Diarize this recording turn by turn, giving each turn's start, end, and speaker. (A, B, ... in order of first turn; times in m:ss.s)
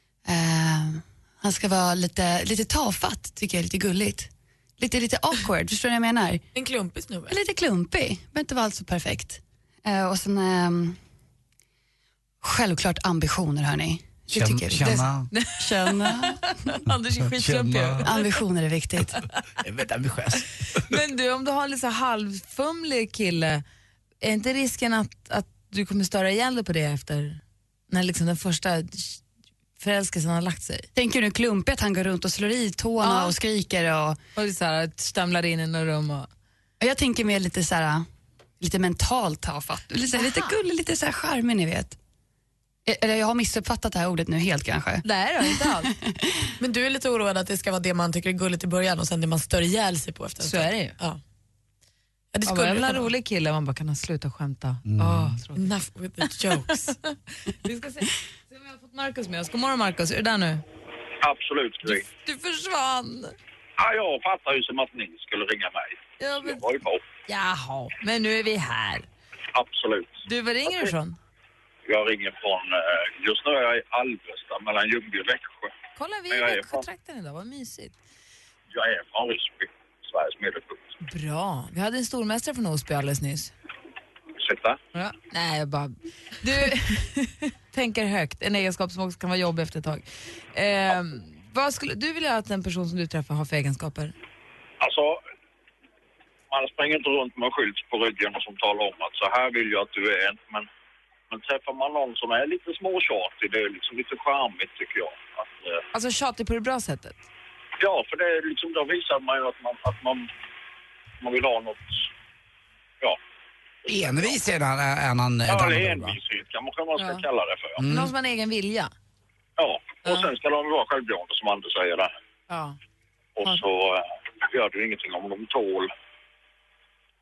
0:00.3-0:06.4 A
0:06.5-0:07.4 B
0:07.3-0:11.0 A
0:12.4-0:16.6 A
0:14.3-0:15.3 C
0:15.3-0:18.1 D
0:17.3-0:18.1 C
0:18.0-0:19.2 A
0:19.6-0:20.8 C
0:20.8-0:23.6 D
0:24.2-0:29.2 D
0:29.8-0:30.9 D
0:31.0-0:34.2 A
0:33.0-0:33.4 D
0:34.4-0:36.3 D
0:36.8-0:38.1 A
0:38.6-0:42.0 A
0:40.2-0:40.6 D
0:42.9-0:46.5 A
0:45.0-0:45.9 D
0:46.6-0:51.2 B
0:50.4-0:51.0 D
0:52.3-0:53.1 B
0:52.5-0:55.7 D
0:54.9-0:55.4 C
0:55.6-0:56.9 B
0:56.3-1:00.6 D
1:01.2-1:02.0 E
1:01.9-1:03.3 D
1:03.8-1:07.0 E
1:06.2-1:06.6 D
1:07.3-1:09.1 D
1:09.5-1:10.9 E
1:10.2-1:11.2 D
1:11.8-1:15.7 E
1:16.0-1:18.0 D
1:16.3-1:16.9 E
1:18.7-1:20.9 E
1:21.0-1:23.5 D
1:24.4-1:24.8 E
1:24.9-1:34.1 D
1:34.8-1:35.2 E
1:36.5-1:40.7 E
1:41.3-1:45.8 E
1:45.9-1:47.2 D
1:47.8-1:50.3 E
1:51.2-1:52.1 E
1:53.9-1:56.2 C
1:53.9-1:54.4 E
1:55.5-1:57.8 E
1:57.0-1:57.2 D
1:57.8-1:58.1 C
1:57.8-1:58.9 D
1:59.6-2:02.1 E
2:02.5-2:02.8 D
2:03.4-2:05.9 E